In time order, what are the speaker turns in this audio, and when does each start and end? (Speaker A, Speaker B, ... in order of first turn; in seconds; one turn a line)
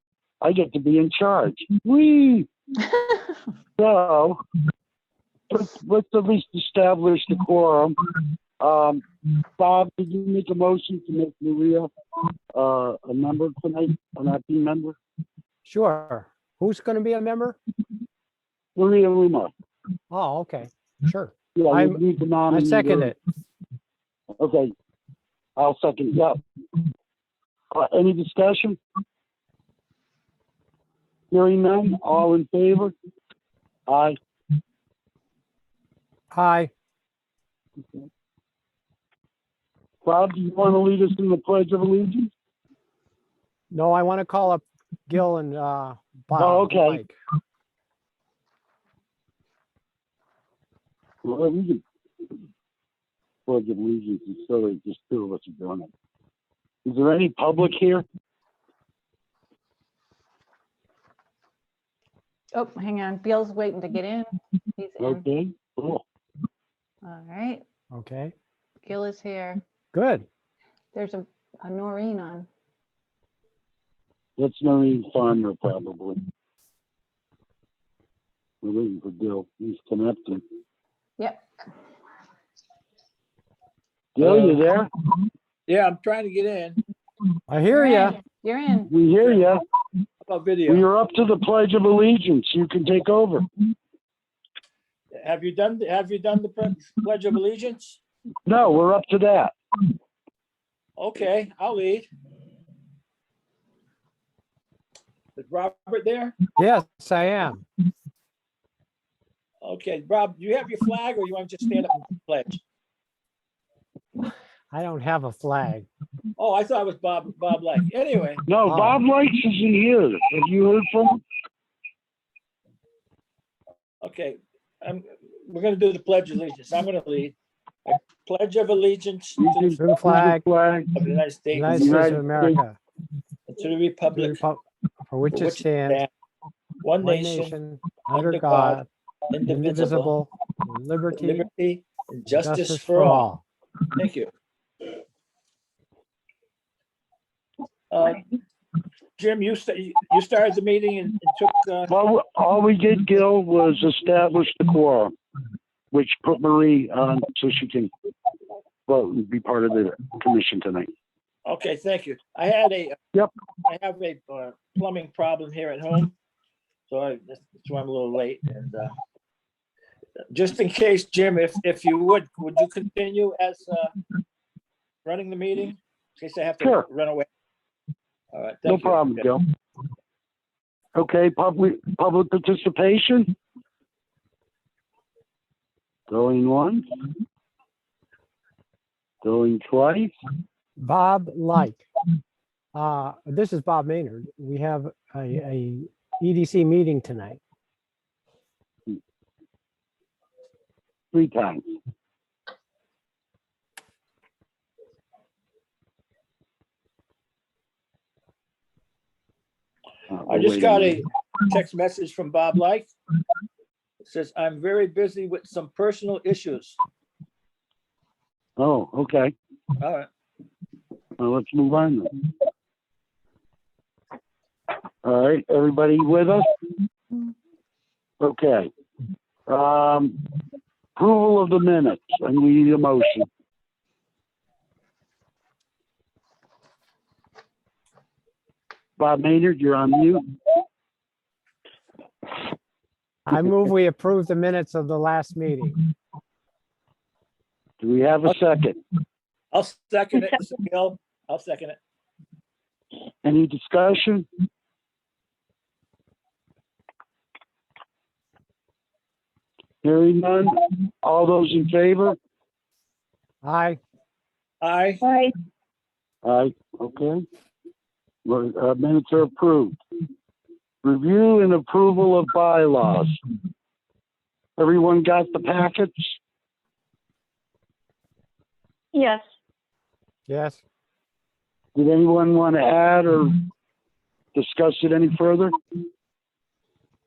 Speaker A: 0.4-2.5
Speaker A: 3.8-4.4
Speaker A: 5.5-8.0
Speaker A: 8.6-9.0
Speaker A: 9.6-11.9
Speaker A: 12.5-15.0
Speaker B: 15.6-17.6
Speaker A: 18.8-19.5
Speaker B: 20.1-23.2
Speaker A: 21.5-23.1
Speaker A: 24.4-24.7
Speaker A: 25.6-26.4
Speaker A: 27.7-28.8
Speaker A: 31.3-32.9
Speaker A: 33.9-34.2
Speaker B: 36.3-36.7
Speaker A: 40.0-42.3
Speaker B: 43.7-47.1
Speaker A: 46.4-47.0
Speaker A: 51.2-51.8
Speaker A: 53.5-55.9
Speaker A: 56.9-58.0
Speaker C: 62.5-65.2
Speaker A: 65.0-66.0
Speaker C: 67.0-67.6
Speaker B: 67.9-68.3
Speaker C: 68.8-69.6
Speaker B: 69.9-70.2
Speaker C: 70.9-72.5
Speaker A: 74.4-76.2
Speaker A: 78.6-80.4
Speaker C: 81.2-81.4
Speaker A: 84.2-84.9
Speaker D: 84.2-84.6
Speaker D: 85.7-86.8
Speaker B: 87.5-88.2
Speaker C: 87.7-88.9
Speaker A: 88.9-89.6
Speaker D: 89.2-89.5
Speaker D: 90.2-90.9
Speaker A: 90.7-93.4
Speaker D: 95.2-98.0
Speaker A: 98.5-99.5
Speaker D: 101.0-102.1
Speaker D: 105.3-106.3
Speaker B: 106.6-107.6
Speaker D: 109.6-112.6
Speaker B: 114.7-115.9
Speaker D: 116.4-118.4
Speaker A: 118.5-121.2
Speaker B: 118.7-119.0
Speaker D: 124.0-127.3
Speaker D: 127.8-129.8
Speaker A: 129.4-130.9
Speaker B: 129.8-130.4
Speaker D: 130.9-132.2
Speaker B: 131.5-132.8
Speaker A: 131.7-132.6
Speaker D: 133.5-134.4
Speaker B: 134.2-136.0
Speaker D: 135.3-136.1
Speaker D: 136.8-137.6
Speaker B: 137.0-138.9
Speaker D: 138.1-140.1
Speaker B: 139.4-141.4
Speaker D: 141.1-143.3
Speaker B: 142.3-143.4
Speaker D: 143.9-144.3
Speaker D: 147.9-148.2
Speaker D: 149.2-151.9
Speaker A: 151.9-155.1
Speaker A: 155.9-157.9
Speaker A: 158.9-160.9
Speaker D: 161.4-163.0
Speaker D: 163.7-166.1
Speaker D: 166.9-168.9
Speaker D: 170.3-173.9
Speaker D: 175.0-177.2
Speaker A: 176.6-176.9
Speaker D: 178.3-179.2
Speaker A: 178.7-179.4
Speaker A: 180.9-183.3
Speaker A: 186.1-186.8
Speaker A: 189.2-190.1
Speaker B: 190.8-191.8
Speaker B: 192.7-197.4
Speaker A: 201.1-201.6
Speaker A: 210.1-211.0
Speaker D: 210.3-212.9
Speaker D: 214.0-216.8
Speaker A: 218.6-219.3
Speaker D: 219.8-220.1
Speaker A: 221.2-222.1
Speaker A: 225.0-226.4
Speaker A: 228.2-228.7
Speaker A: 229.5-230.2
Speaker A: 230.9-233.3
Speaker A: 239.0-240.2
Speaker B: 243.3-245.8
Speaker A: 247.8-248.8
Speaker D: 249.5-251.8
Speaker A: 253.2-254.3
Speaker A: 259.8-262.2
Speaker B: 263.4-263.8
Speaker D: 264.6-265.0
Speaker C: 265.0-265.3
Speaker A: 266.2-267.2
Speaker A: 268.2-269.8
Speaker A: 270.8-273.2
Speaker A: 274.6-276.1
Speaker C: 278.9-279.2
Speaker B: 280.3-280.6
Speaker A: 281.8-283.3
Speaker A: 284.3-285.5